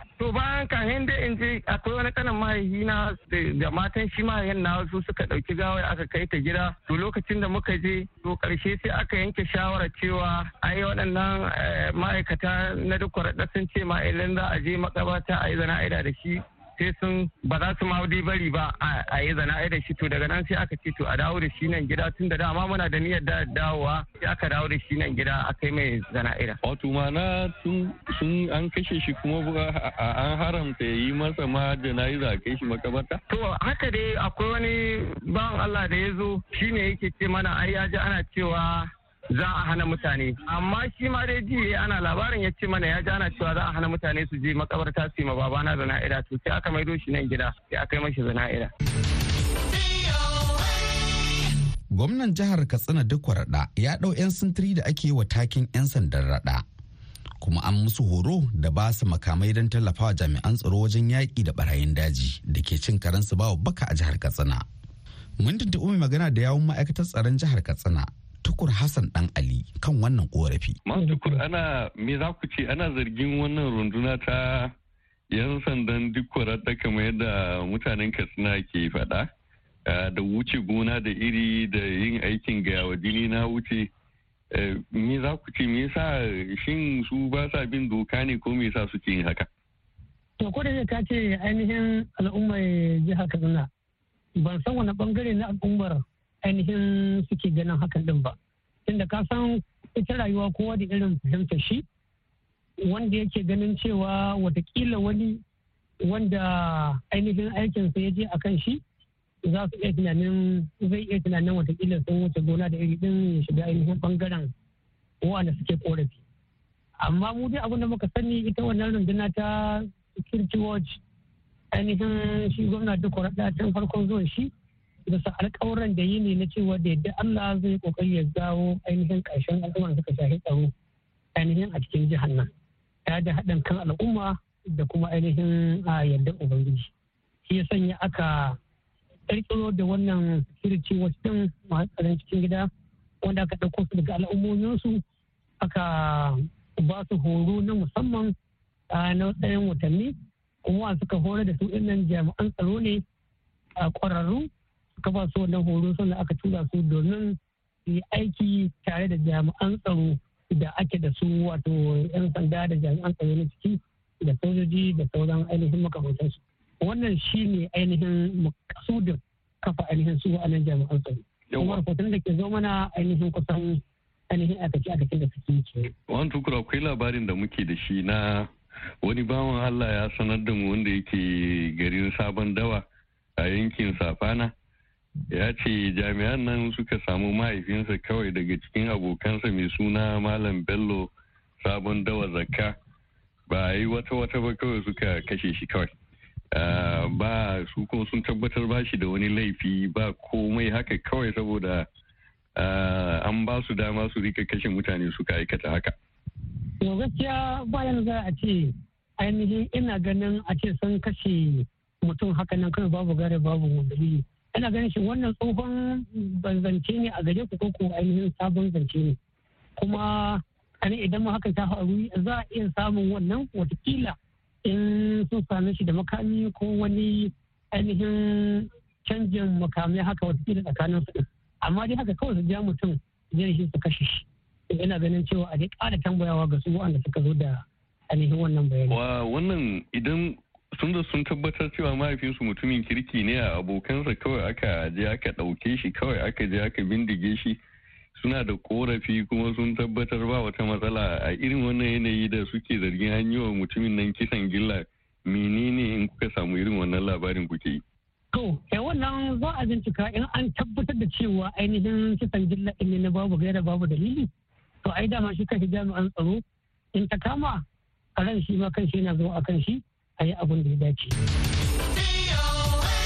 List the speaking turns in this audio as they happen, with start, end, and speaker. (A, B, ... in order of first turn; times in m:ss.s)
0:00.2-0:26.6 A
0:26.6-0:33.2 B
0:33.3-0:48.7 A
0:51.9-0:56.6 C
0:57.4-1:04.6 C
1:05.4-1:10.8 C
1:10.9-1:14.7 B
1:11.0-1:11.4 D
1:15.3-1:19.3 B
1:19.9-1:23.9 B
1:24.5-1:29.5 B
1:30.4-1:33.7 D
1:34.4-1:38.4 D
1:38.9-1:41.8 D
1:42.8-1:45.4 D
1:46.0-1:48.8 D
1:49.4-1:54.5 D
1:55.2-1:56.2 D
1:57.0-2:01.0 D
2:01.7-2:04.5 D
2:05.1-2:10.7 D
2:11.4-2:12.5 D
2:13.1-2:16.9 D
2:17.5-2:18.6 D
2:19.3-2:22.7 D
2:23.2-2:25.0 D
2:25.6-2:28.3 D
2:28.9-2:30.1 D
2:30.6-2:33.0 D
2:33.8-2:34.5 D
2:35.0-2:37.4 D
2:37.9-2:55.9 D
2:51.5-2:51.8 B
2:56.1-2:58.5 B
2:59.0-3:02.8 B
3:03.4-3:04.5 B
3:05.3-3:12.8 B
3:13.5-3:15.9 B
3:16.5-3:21.9 B
3:22.6-3:25.9 B
3:26.8-3:39.2 D
3:39.8-3:59.0 D
3:58.9-4:07.6 B
4:08.2-4:17.8 B
4:18.3-4:24.3 D
4:24.8-4:26.4 D
4:27.0-4:27.6 D
4:28.2-4:31.2 D